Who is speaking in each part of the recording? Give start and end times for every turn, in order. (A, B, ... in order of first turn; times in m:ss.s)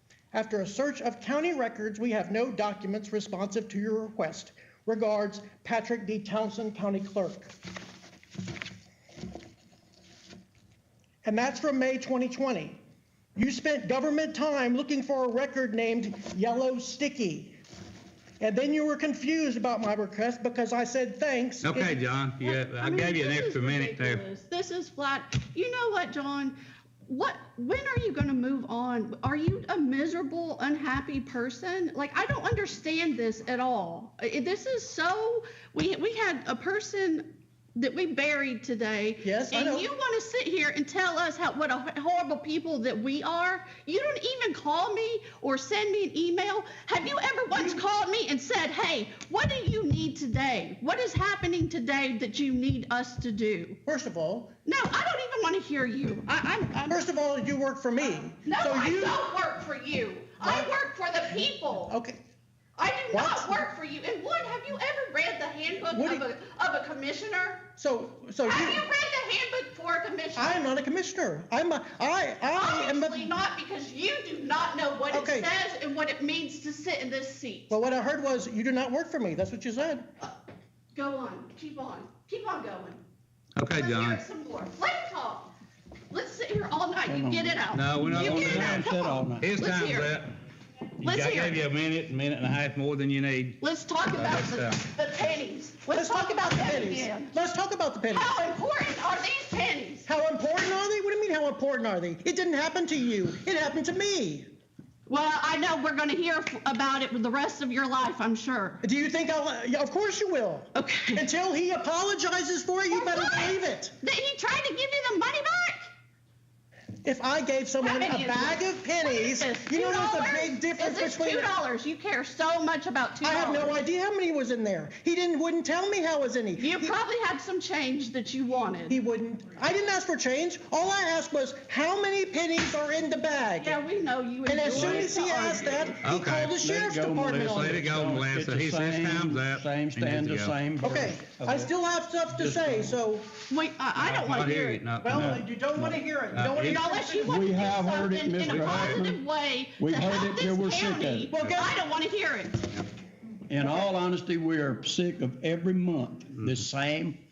0:00.3-0:07.5 A
0:11.2-0:12.8 A
0:13.3-0:17.6 A
0:18.4-0:22.0 A
0:21.6-0:24.2 B
0:22.4-0:53.8 C
0:39.2-0:39.9 A
0:47.5-0:47.8 A
0:53.8-0:54.5 A
0:54.6-0:57.0 C
0:56.9-0:59.2 A
0:58.0-1:02.0 C
1:00.4-1:00.7 A
1:01.8-1:02.2 A
1:02.8-1:07.7 C
1:03.1-1:03.6 A
1:05.9-1:06.2 A
1:07.8-1:08.8 A
1:08.4-1:10.6 C
1:10.4-1:13.3 A
1:12.5-1:17.8 C
1:15.1-1:15.5 A
1:17.7-1:20.1 A
1:20.9-1:23.0 C
1:23.6-1:24.2 B
1:23.7-1:25.5 C
1:26.1-1:30.2 C
1:27.1-1:29.5 D
1:27.7-1:30.3 B
1:31.0-1:34.8 B
1:31.0-1:31.6 C
1:33.6-1:37.4 C
1:35.9-1:38.4 A
1:38.1-1:40.1 C
1:40.0-1:44.5 A
1:45.1-1:48.8 C
1:48.8-1:53.9 A
1:50.7-1:51.2 C
1:52.9-1:55.9 C
1:57.0-2:01.5 A
1:57.8-2:03.8 C
2:03.2-2:06.9 A
2:06.6-2:09.0 C
2:08.9-2:13.8 A
2:13.6-2:15.9 C
2:14.4-2:17.8 A
2:14.6-2:15.9 D
2:16.0-2:16.6 B
2:16.6-2:21.7 D
2:17.4-2:20.6 B
2:20.8-2:23.3 A
2:22.3-2:23.0 D
2:23.5-2:24.8 C
2:24.0-2:26.8 B
2:25.0-2:27.4 A
2:26.6-2:32.7 C
2:27.2-2:29.2 D
2:28.4-2:29.0 B
2:29.8-2:31.3 D
2:31.3-2:31.7 A
2:33.5-2:37.2 D
2:33.6-2:33.9 A